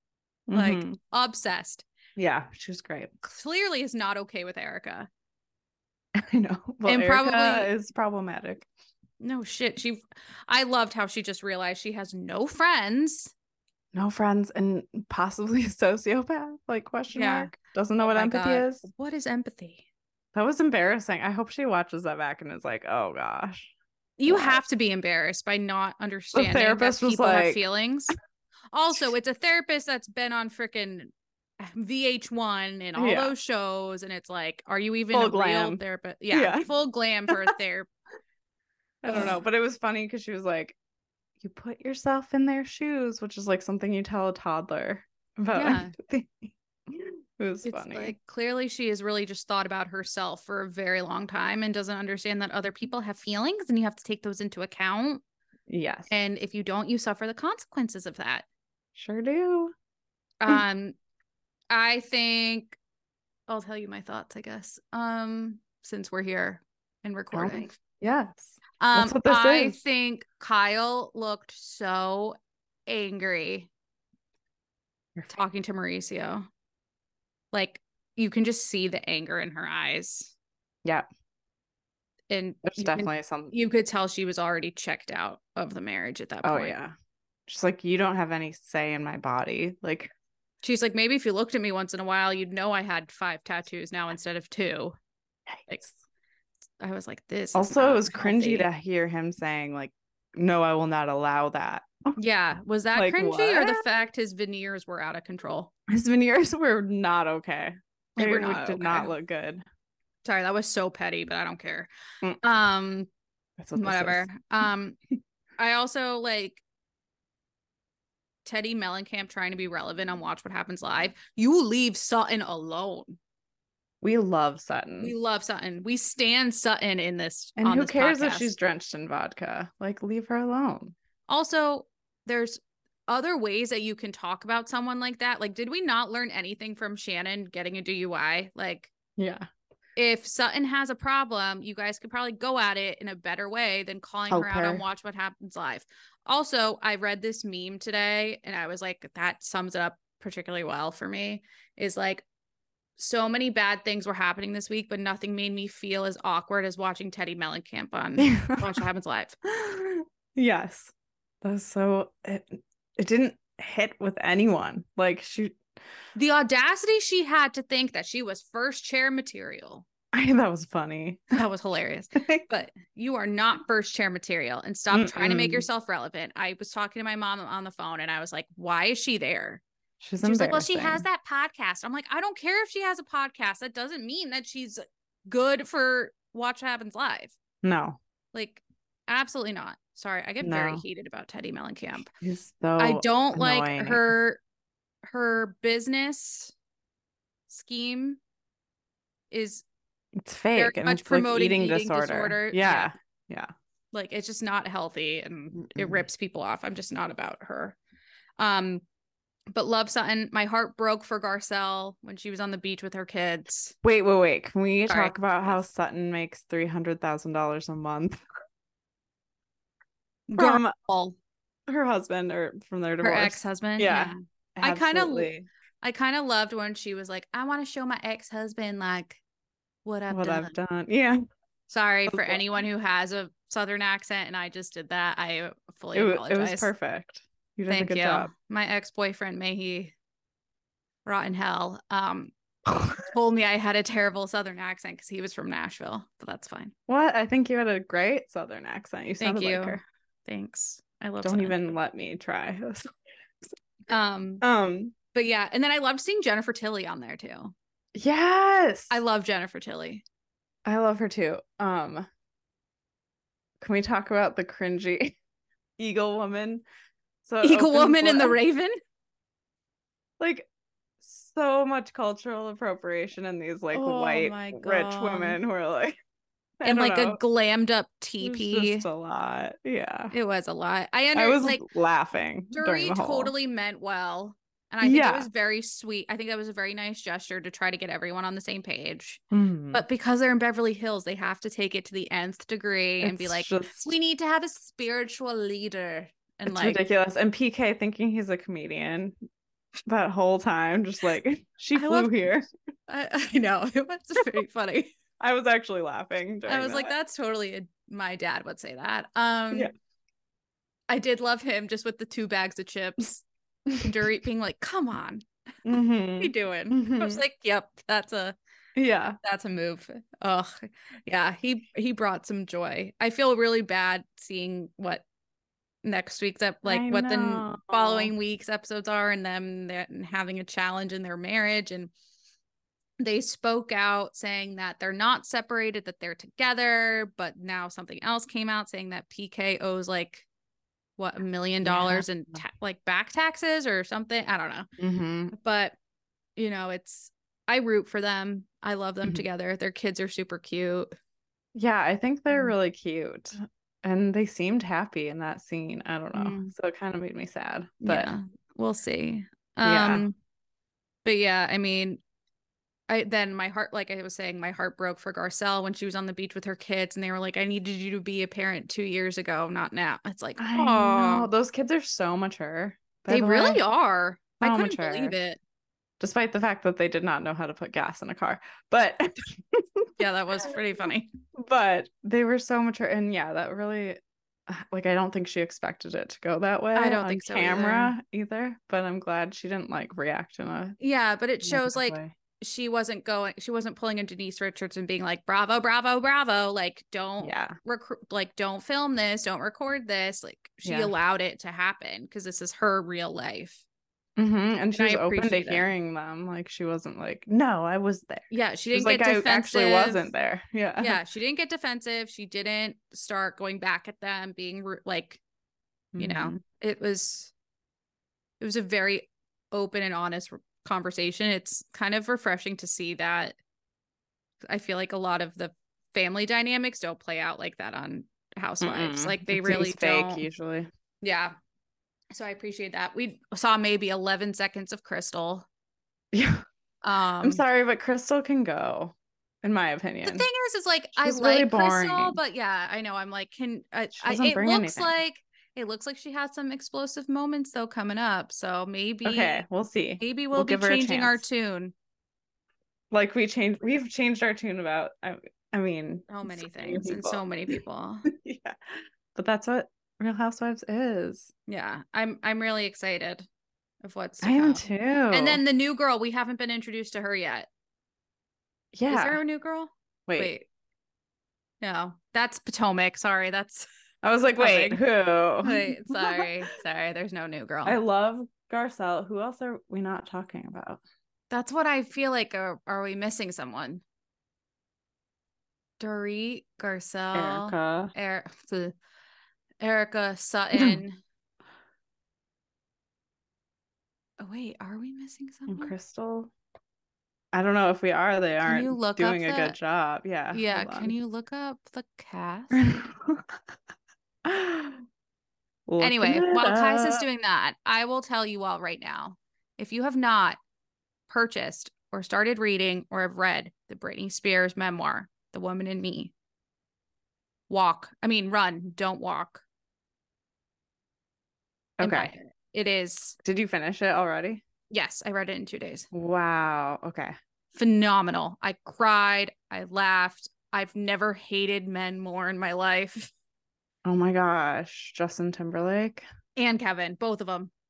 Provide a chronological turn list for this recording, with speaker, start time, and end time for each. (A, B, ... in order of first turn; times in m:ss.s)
0:00.5-0:01.0 A
0:00.5-0:01.8 B
0:02.2-0:03.1 A
0:03.2-0:05.1 B
0:06.2-0:08.6 A
0:06.8-0:07.7 B
0:09.2-0:13.3 B
0:13.9-0:18.8 A
0:17.1-0:19.9 B
0:20.3-0:23.7 A
0:24.2-0:28.1 B
0:24.3-0:24.6 A
0:26.3-0:27.6 A
0:28.7-0:37.9 B
0:33.0-0:33.3 A
0:35.1-0:35.8 A
0:36.3-0:36.7 A
0:39.0-0:40.8 A
0:39.1-0:39.4 B
0:41.4-0:48.1 A
0:45.5-0:45.9 B
0:47.6-0:55.2 B
0:55.7-0:56.1 A
0:56.1-0:58.4 B
0:58.9-0:59.7 A
1:00.4-1:01.0 B
1:01.7-1:02.8 B
1:03.5-1:07.7 B
1:07.3-1:09.8 A
1:08.8-1:12.4 B
1:12.9-1:13.7 B
1:15.3-1:16.5 B
1:17.5-1:20.3 B
1:22.3-1:26.7 B
1:22.6-1:23.5 A
1:26.4-1:26.9 A
1:27.5-1:30.1 A
1:30.6-1:35.0 B
1:35.5-1:36.0 A
1:36.8-1:38.7 B
1:37.5-1:42.2 A
1:42.2-1:45.7 B
1:42.9-1:43.8 A
1:45.9-1:49.6 A
1:48.2-1:49.1 B
1:50.2-1:51.9 B
1:52.4-1:53.1 B
1:53.6-1:54.3 A
1:53.8-1:55.0 B
1:55.6-1:56.6 B
1:58.4-2:03.2 B
2:04.0-2:05.1 A
2:05.0-2:08.5 B
2:07.6-2:10.9 A
2:11.3-2:18.9 B
2:19.2-2:19.5 A
2:20.0-2:32.2 B
2:24.3-2:24.8 A
2:33.0-2:39.4 B
2:38.2-2:38.7 A
2:39.4-2:45.6 A
2:46.1-2:49.8 B
2:50.1-2:51.4 A
2:51.3-2:59.6 B
2:52.2-2:52.4 A
2:54.9-2:55.6 A
3:00.0-3:01.0 A
3:00.2-3:07.3 B
3:07.6-3:08.0 A
3:08.3-3:12.1 B
3:10.4-3:10.8 A
3:12.1-3:14.1 A
3:12.8-3:14.4 B
3:15.0-3:16.5 B
3:17.5-3:18.2 B
3:19.3-3:19.6 B
3:20.2-3:23.5 A
3:20.5-3:22.9 B
3:23.9-3:27.8 B
3:25.6-3:26.0 A
3:28.4-3:28.8 B
3:29.5-3:33.8 B
3:33.8-3:38.2 A
3:34.9-3:35.6 B
3:40.3-3:41.2 B
3:40.4-3:40.7 A
3:41.7-3:45.5 A
3:43.0-3:45.3 B
3:45.8-3:49.2 B
3:49.8-3:50.5 B
3:50.1-3:51.2 A
3:51.7-3:56.7 B
3:52.1-3:52.4 A
3:55.9-3:58.3 A
3:57.7-3:59.9 B
4:01.0-4:02.3 B
4:03.0-4:06.7 B
4:06.9-4:09.8 A
4:09.2-4:11.6 B
4:11.2-4:12.9 A
4:13.9-4:14.4 B
4:14.4-4:14.9 A
4:15.1-4:17.5 B
4:17.9-4:19.0 A
4:18.9-4:20.0 B
4:20.6-4:22.0 A
4:23.6-4:25.1 A
4:25.8-4:26.6 A
4:27.2-4:28.4 A
4:27.4-4:28.8 B
4:30.2-4:30.5 A
4:31.0-4:36.0 A
4:33.7-4:35.4 B
4:36.6-4:37.2 A
4:36.6-4:38.8 B
4:38.2-4:40.1 A
4:40.1-4:41.6 B
4:41.1-4:43.3 A
4:42.5-4:49.2 B
4:44.8-4:45.3 A
4:49.3-4:49.8 A
4:49.7-4:56.8 B
4:53.0-4:53.9 A
4:56.5-4:59.2 A
4:59.8-5:02.5 A
5:01.7-5:02.3 B
5:02.9-5:04.9 B
5:05.2-5:06.9 A
5:06.5-5:09.7 B
5:10.9-5:13.2 B
5:13.8-5:15.2 B
5:15.6-5:17.2 A
5:16.2-5:18.4 B
5:18.8-5:19.2 A
5:19.2-5:25.0 B
5:25.8-5:31.9 B
5:26.6-5:28.1 A
5:33.0-5:40.3 B
5:41.0-5:44.7 B
5:41.6-5:42.4 A
5:44.8-5:45.3 A
5:45.3-5:45.8 B
5:46.4-5:50.9 B
5:51.5-5:58.1 A
5:56.1-5:56.5 B
5:57.8-6:00.1 B
5:59.6-6:00.0 A
6:01.0-6:02.0 B
6:02.9-6:11.3 B
6:10.4-6:13.6 A
6:13.1-6:15.4 B
6:14.4-6:15.1 A
6:16.0-6:19.9 A
6:20.0-6:21.1 B
6:21.3-6:30.8 A
6:26.7-6:27.9 B
6:30.8-6:43.6 B
6:31.4-6:32.1 A
6:37.2-6:37.5 A
6:40.6-6:40.9 A
6:44.2-6:51.0 A
6:44.7-6:45.7 B
6:48.3-6:50.1 B
6:50.8-6:55.2 B
6:55.9-6:56.4 A
6:56.0-6:57.3 B
6:58.4-7:03.4 B
7:04.4-7:10.2 B
7:08.6-7:10.7 A
7:11.0-7:11.3 B
7:12.1-7:15.4 B
7:16.1-7:16.4 A
7:16.8-7:17.4 B
7:17.2-7:20.3 A
7:20.0-7:29.4 B
7:21.0-7:22.2 A
7:23.9-7:24.9 A
7:29.0-7:31.2 A
7:30.0-7:31.7 B
7:32.9-7:37.2 A
7:36.1-7:38.0 B
7:38.0-7:41.3 A
7:41.5-7:43.2 B
7:43.8-7:47.5 B
7:44.2-7:45.4 A
7:48.7-7:49.2 A
7:48.9-7:50.5 B
7:50.1-7:50.3 A
7:51.6-7:53.7 B
7:54.0-7:56.3 A
7:54.4-7:54.8 B
7:55.4-7:57.8 B
7:57.6-8:00.8 A
8:01.3-8:03.8 B
8:05.8-8:08.7 B
8:07.1-8:07.9 A
8:09.6-8:11.0 B
8:10.5-8:10.8 A
8:14.2-8:15.7 B
8:15.5-8:16.3 A
8:17.3-8:20.9 A
8:18.4-8:19.6 B
8:20.3-8:22.6 B
8:22.5-8:23.4 A
8:24.2-8:24.8 A
8:25.7-8:27.0 A
8:25.8-8:30.4 B
8:31.1-8:36.1 B
8:37.5-8:39.4 B
8:41.8-8:42.1 A
8:41.8-8:43.2 B
8:43.2-8:44.4 A
8:44.7-8:45.9 B
8:45.9-8:47.1 A
8:47.5-8:53.1 B
8:53.8-8:56.0 A
8:56.4-8:57.5 B